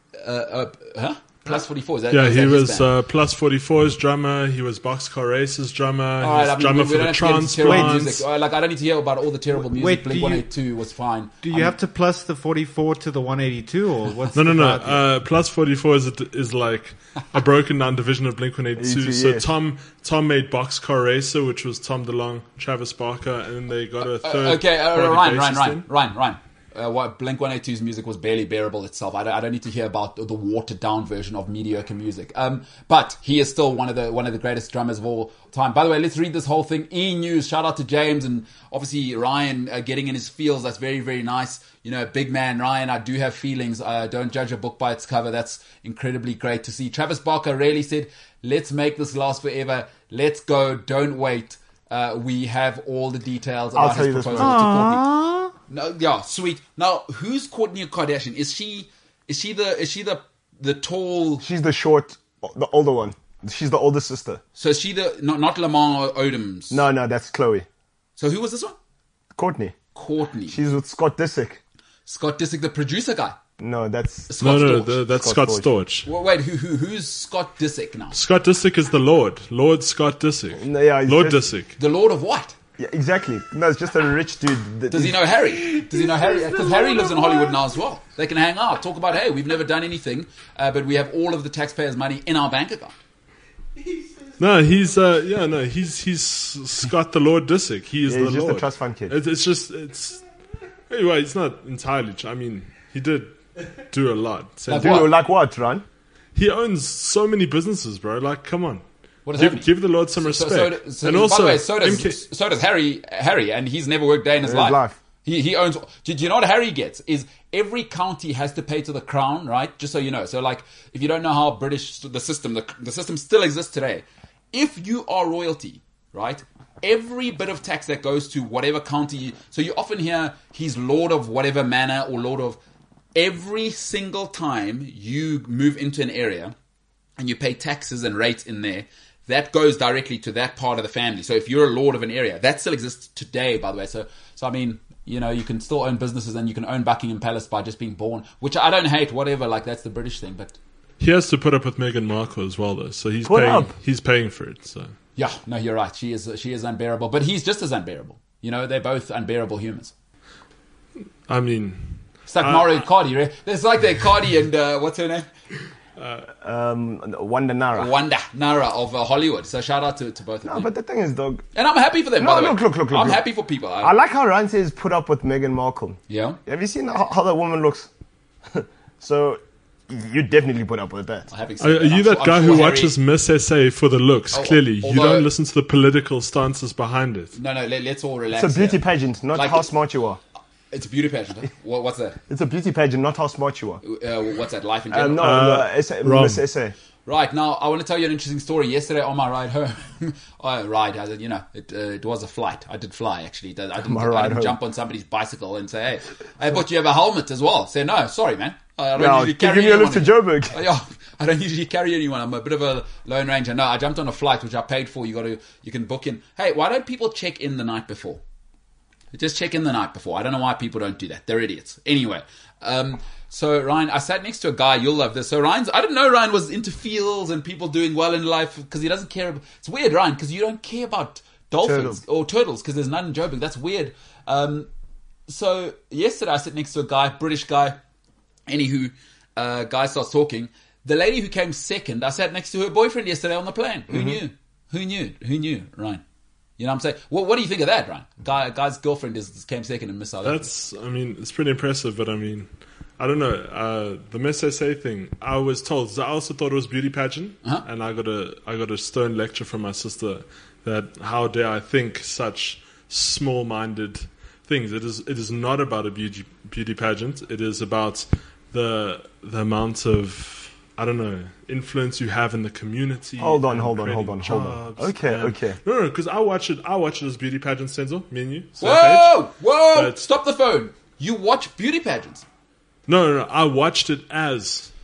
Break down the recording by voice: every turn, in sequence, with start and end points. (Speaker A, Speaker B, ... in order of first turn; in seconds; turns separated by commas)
Speaker A: 0.2-2.9, Speaker B: 2.1-8.3, Speaker A: 6.2-11.7, Speaker C: 7.6-7.9, Speaker C: 9.6-10.5, Speaker C: 11.4-15.0, Speaker B: 14.3-25.9, Speaker D: 18.8-19.5, Speaker A: 24.0-55.0, Speaker D: 53.7-54.7, Speaker C: 54.4-55.5, Speaker A: 55.7-61.4, Speaker D: 61.4-64.4, Speaker A: 64.6-66.8, Speaker D: 66.7-67.7, Speaker A: 68.2-68.8, Speaker D: 69.3-69.7, Speaker A: 69.9-70.6, Speaker D: 70.5-71.6, Speaker A: 72.1-73.3, Speaker D: 73.6-74.3, Speaker A: 74.3-75.0, Speaker B: 74.4-76.1, Speaker D: 75.1-75.7, Speaker A: 76.0-78.2, Speaker B: 78.1-81.7, Speaker D: 80.6-81.4, Speaker A: 81.8-82.5, Speaker D: 82.8-85.2, Speaker A: 84.9-92.9, Speaker B: 94.4-100.2, Speaker D: 98.0-99.2, Speaker B: 100.9-103.4, Speaker B: 103.9-105.1, Speaker A: 104.7-105.1, Speaker D: 104.7-105.8, Speaker B: 106.3-108.8, Speaker A: 109.2-132.6, Speaker B: 109.4-112.2, Speaker D: 114.4-115.0, Speaker A: 133.1-136.5, Speaker A: 137.2-150.6, Speaker B: 151.0-154.9, Speaker D: 153.2-153.7, Speaker A: 155.2-159.9, Speaker B: 161.3-162.8, Speaker A: 162.3-165.3, Speaker B: 166.0-166.3, Speaker D: 166.4-167.9, Speaker A: 167.7-170.7, Speaker D: 170.5-171.4, Speaker A: 171.5-173.9, Speaker D: 172.2-173.2, Speaker D: 173.8-177.9, Speaker A: 176.1-176.4, Speaker D: 178.5-181.3, Speaker A: 181.3-182.9, Speaker B: 181.6-187.4, Speaker A: 184.3-185.3, Speaker A: 187.3-188.8, Speaker D: 188.3-190.2, Speaker A: 189.3-189.7, Speaker A: 190.7-192.2, Speaker D: 192.3-193.8, Speaker A: 193.8-195.3, Speaker D: 194.9-196.7, Speaker B: 195.2-196.4, Speaker A: 197.1-218.2, Speaker D: 203.8-204.6, Speaker D: 209.0-210.6, Speaker A: 219.1-234.7, Speaker D: 231.6-232.0, Speaker A: 235.3-237.8, Speaker A: 238.5-246.0, Speaker D: 243.9-244.2, Speaker A: 246.6-250.4, Speaker B: 250.2-252.5, Speaker B: 253.0-279.1, Speaker D: 273.2-275.6, Speaker A: 278.6-282.2, Speaker B: 279.7-280.0, Speaker B: 282.9-284.7